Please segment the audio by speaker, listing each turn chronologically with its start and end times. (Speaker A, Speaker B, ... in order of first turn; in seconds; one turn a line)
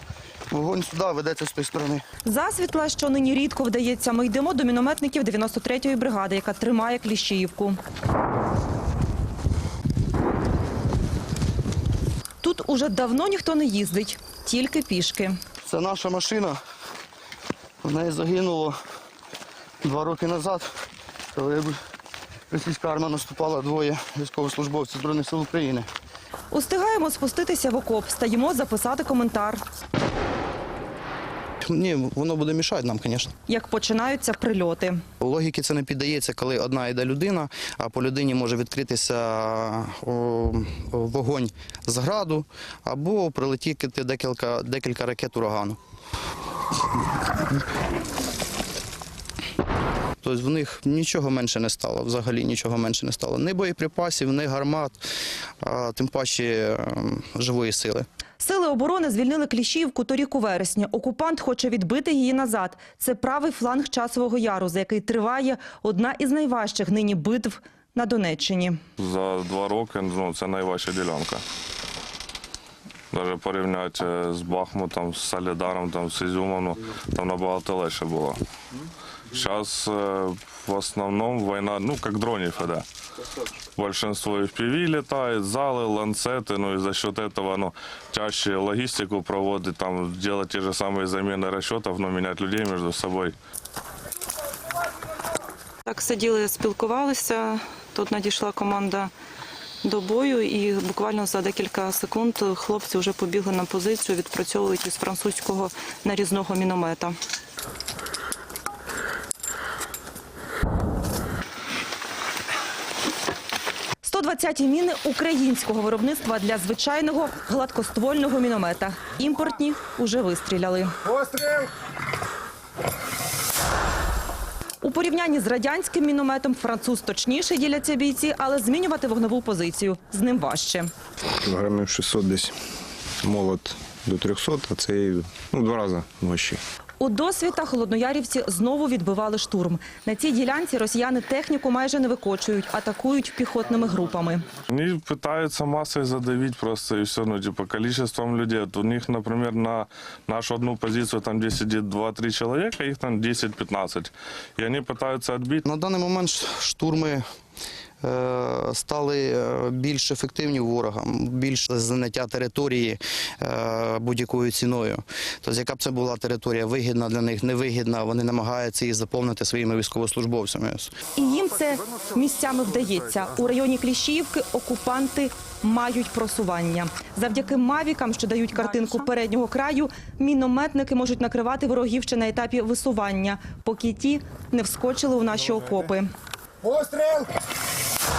Speaker A: 0.5-2.0
Speaker B: 2.2-7.8
Speaker B: 12.4-15.3
Speaker A: 15.6-16.6
Speaker A: 17.8-18.8
Speaker A: 19.8-20.7
Speaker A: 21.3-21.8
Speaker A: 22.5-25.9
Speaker B: 26.5-29.6
Speaker A: 31.6-33.3
Speaker B: 33.5-35.0
Speaker A: 35.2-45.8
Speaker A: 50.2-55.0
Speaker A: 55.6-58.0
Speaker B: 58.4-68.8
Speaker C: 69.0-71.4
Speaker C: 73.1-78.4
Speaker C: 79.3-82.8
Speaker C: 83.8-93.3
Speaker B: 95.8-99.1
Speaker B: 99.8-107.2
Speaker B: 114.0-121.6
Speaker B: 124.8-130.9
Speaker D: 131.4-132.6
Speaker D: 133.2-136.6
Speaker B: 137.0-144.4
Speaker C: 144.7-155.6
Speaker A: 155.6-157.2
Speaker A: 158.0-170.9
Speaker B: 171.1-186.1